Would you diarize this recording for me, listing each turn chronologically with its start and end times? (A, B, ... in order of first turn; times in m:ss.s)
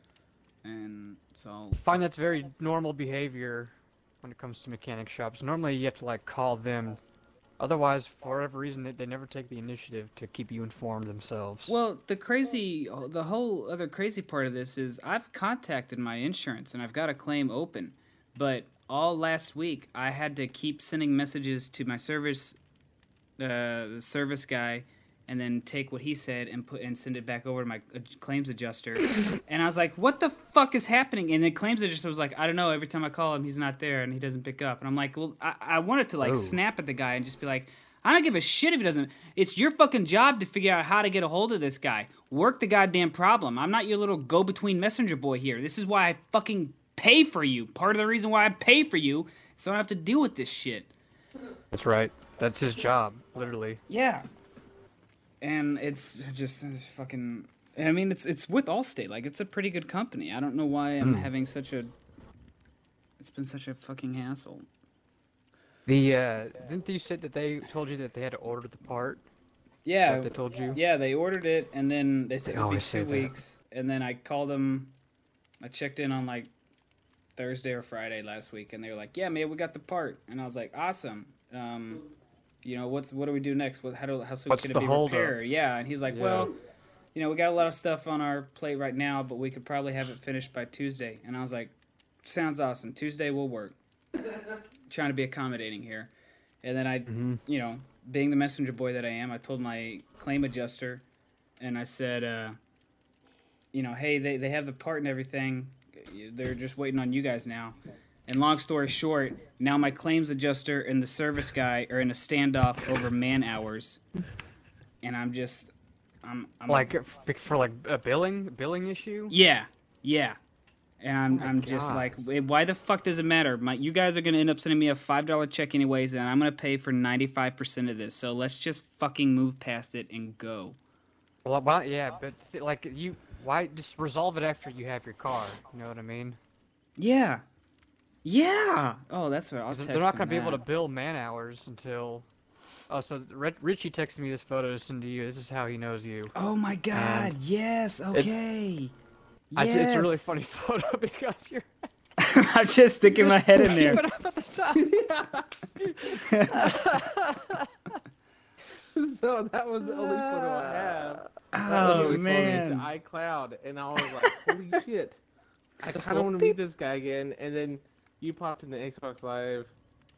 0:00.6-0:02.0 A
0:01.8-0:07.0 B
0:07.6-0:11.7 B
0:11.7-0:22.6 A
0:23.4-0:50.9 A
0:36.2-0:36.6 B
0:51.7-0:53.8 B
0:53.9-0:54.3 A
0:55.4-1:01.9 A
1:01.0-1:01.3 B
1:03.2-1:04.6 A
1:05.8-1:09.2 B
1:09.8-1:14.9 A
1:10.0-1:10.8 B
1:12.4-1:13.3 B
1:15.6-1:16.5 A
1:17.4-1:22.1 A
1:22.6-1:26.5 A
1:24.5-1:25.4 B
1:26.1-1:26.5 B
1:27.1-1:33.8 A
1:34.9-1:36.1 A
1:36.6-1:41.0 A
1:37.1-1:37.4 B
1:41.6-1:42.6 A
1:43.7-1:54.0 A
1:55.0-1:55.7 A
1:56.2-1:57.0 A
1:56.7-1:59.4 B
1:59.3-2:00.4 A
2:01.0-2:10.8 A
2:01.3-2:02.0 B
2:11.4-2:16.4 B
2:17.0-2:17.4 A
2:18.2-2:20.6 A
2:19.7-2:22.2 B
2:22.9-2:26.3 B
2:26.3-2:28.9 A
2:26.9-2:27.4 B
2:29.5-2:30.3 A
2:29.6-2:31.7 B
2:32.2-2:34.0 A
2:33.1-2:35.0 B
2:34.7-2:36.1 C
2:36.2-2:37.0 A
2:36.5-2:37.7 B
2:38.9-2:45.2 C
2:39.8-2:41.2 B
2:41.5-2:42.9 A
2:45.8-2:49.7 C
2:45.9-2:46.6 A